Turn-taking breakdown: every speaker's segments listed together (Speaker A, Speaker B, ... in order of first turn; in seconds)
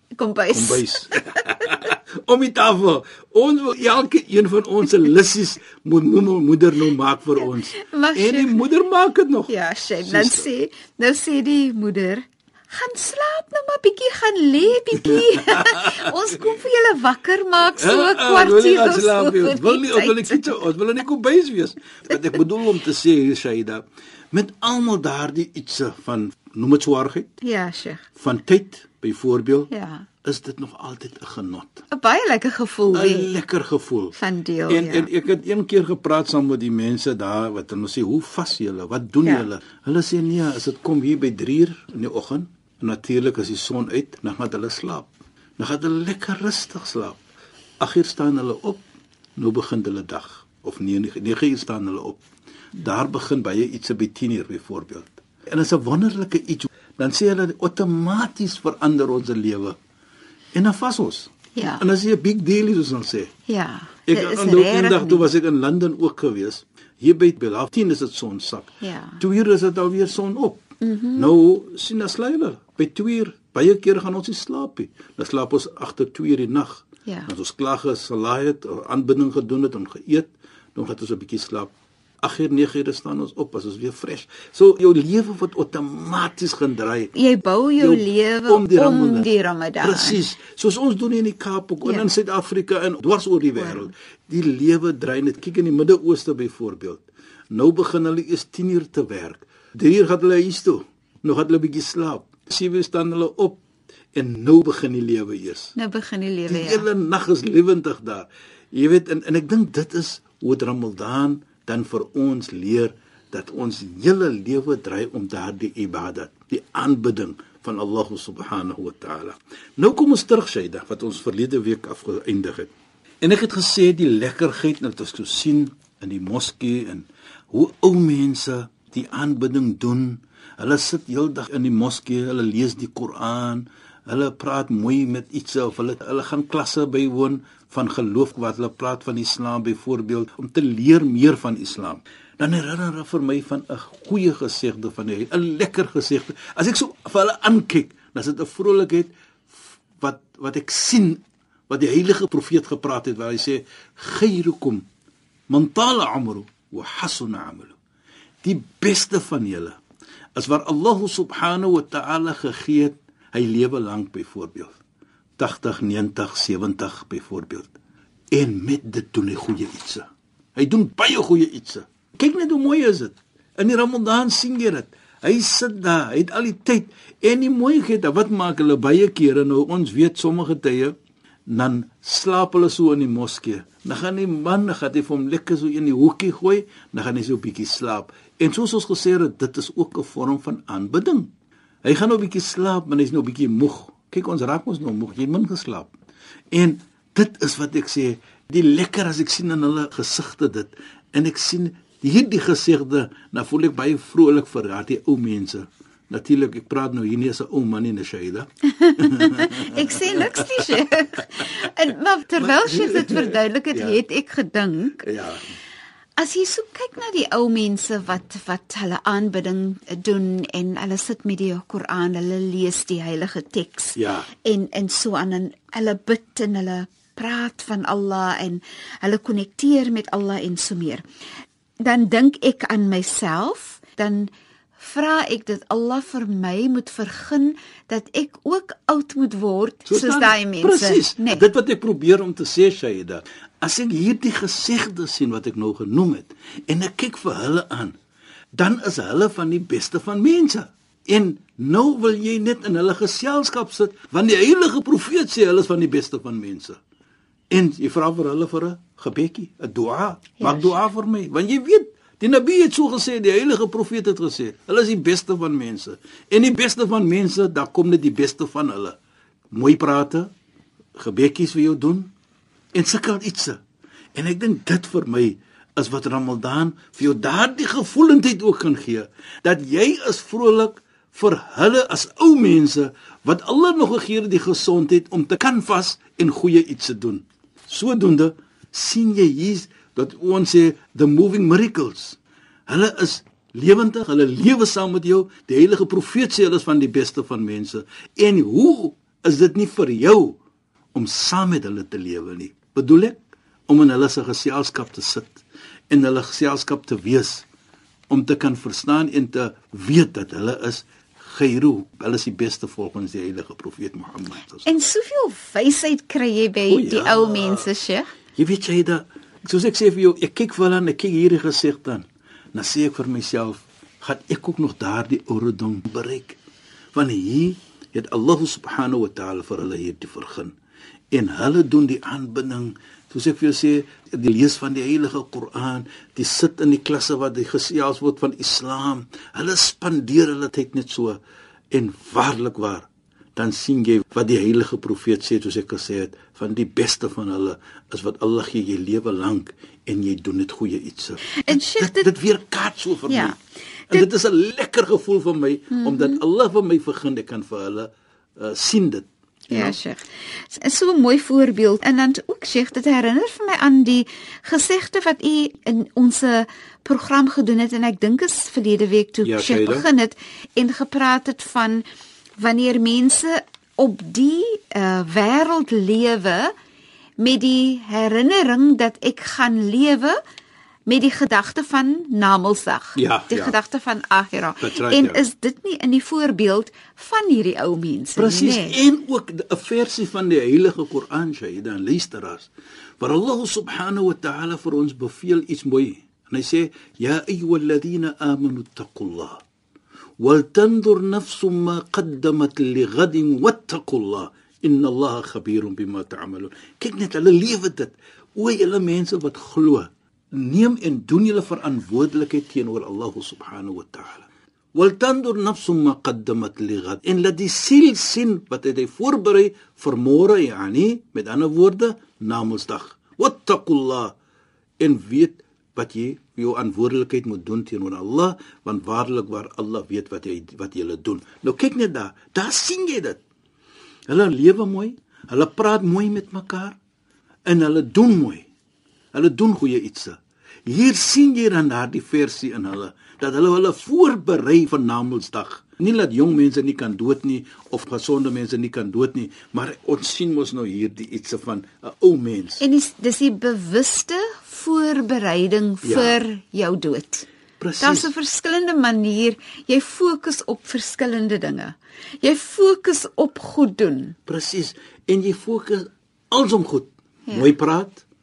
Speaker A: 0.1-1.6, 7.4-8.5, 9.5-20.6, 27.4-28.1, 29.7-30.1, 31.9-33.3, 34.1-35.1, 61.5-61.8, 63.5-65.3, 68.8-69.2, 70.8-71.3, 87.1-90.2, 91.8-92.1, 93.5-93.9, 105.7-106.9, 208.8-215.0, 216.2-231.0, 231.8-241.4, 260.4-260.8, 314.6-318.1, 351.4-352.1, 353.1-353.4, 355.7-356.2, 359.5-371.8, 372.4-376.5, 377.2-380.2, 380.9-388.8, 452.6-457.2, 457.8-464.1, 467.3-467.5
Speaker B: 0.5-10.5, 15.0-16.1, 17.7-27.3, 28.1-29.7, 30.2-31.8, 32.9-34.1, 34.7-47.2, 47.8-48.8, 49.4-52.2, 52.7-59.8, 60.5-63.3, 64.1-70.6, 71.2-87.1, 87.8-89.3, 89.8-103.6, 104.1-105.7, 106.5-154.8, 155.5-157.8, 158.4-159.8, 160.3-164.8, 165.4-167.7, 168.3-170.0, 170.6-180.9, 181.5-191.3, 191.8-195.9, 196.5-211.6, 212.4-214.0, 215.0-215.4, 223.9-224.3, 239.9-247.9, 248.5-256.8, 257.5-269.0, 269.5-270.3, 271.0-272.1, 272.7-273.6, 274.1-300.4, 300.9-307.4, 308.1-314.8, 316.7-317.7, 318.4-326.4, 326.9-330.5, 331.1-353.4, 353.9-359.8, 369.2-369.9, 382.9-383.6, 384.6-385.2, 388.2-392.5, 393.0-399.4, 400.2-424.1, 424.8-433.2, 434.1-436.8, 437.5-438.5, 439.1-452.6, 455.8-456.2, 457.6-458.1, 464.3-468.0